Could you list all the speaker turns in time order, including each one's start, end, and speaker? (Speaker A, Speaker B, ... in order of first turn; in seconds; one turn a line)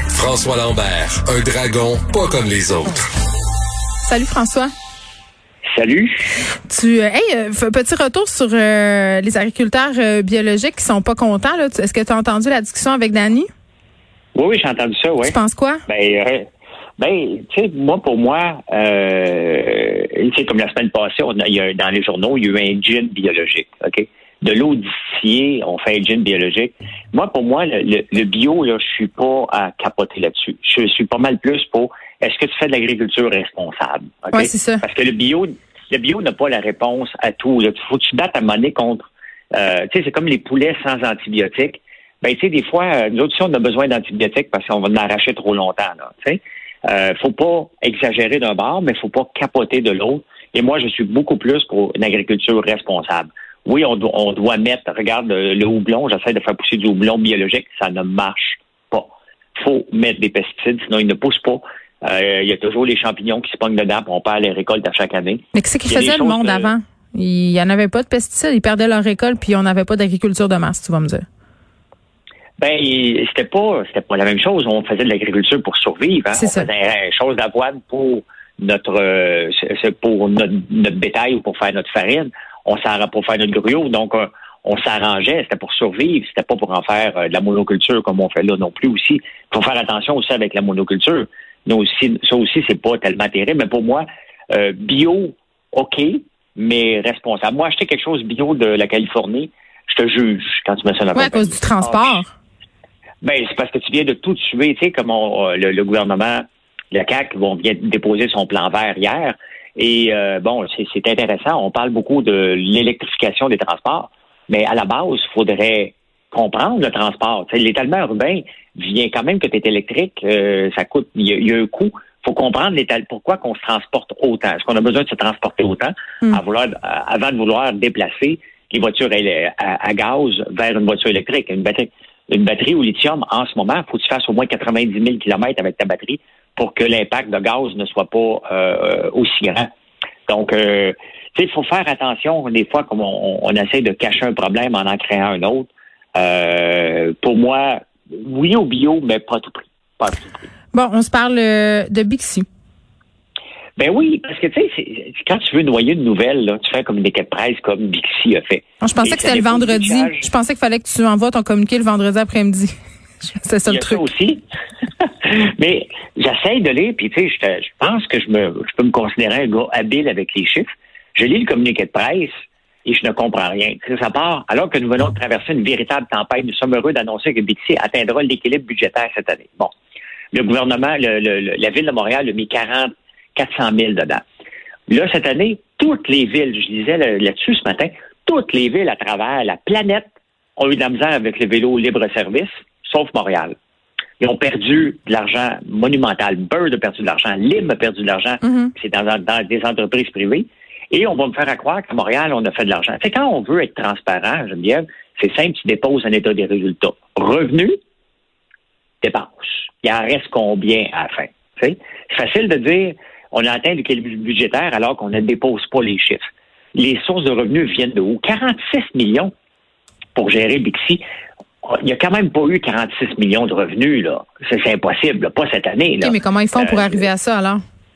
Speaker A: 0.1-3.1
Speaker B: 4.0-4.7
Speaker C: 5.7-6.3
Speaker B: 6.7-13.5
Speaker C: 14.3-66.7
Speaker B: 15.2-15.8
Speaker B: 34.3-34.8
Speaker B: 65.5-71.2
Speaker C: 72.6-102.2
Speaker B: 76.3-76.7
Speaker B: 101.1-102.3
Speaker C: 103.2-139.7
Speaker C: 140.3-150.4
Speaker B: 150.7-152.4
Speaker C: 153.8-160.3
Speaker B: 158.8-162.8
Speaker B: 163.3-164.1
Speaker C: 163.7-164.4
Speaker C: 165.0-172.3
Speaker C: 172.8-179.7
Speaker C: 180.3-184.2
Speaker C: 184.9-193.5
Speaker C: 194.2-207.8
Speaker B: 198.4-198.7
Speaker C: 209.0-219.3
Speaker C: 220.1-221.0
Speaker C: 221.6-227.1
Speaker B: 226.0-227.6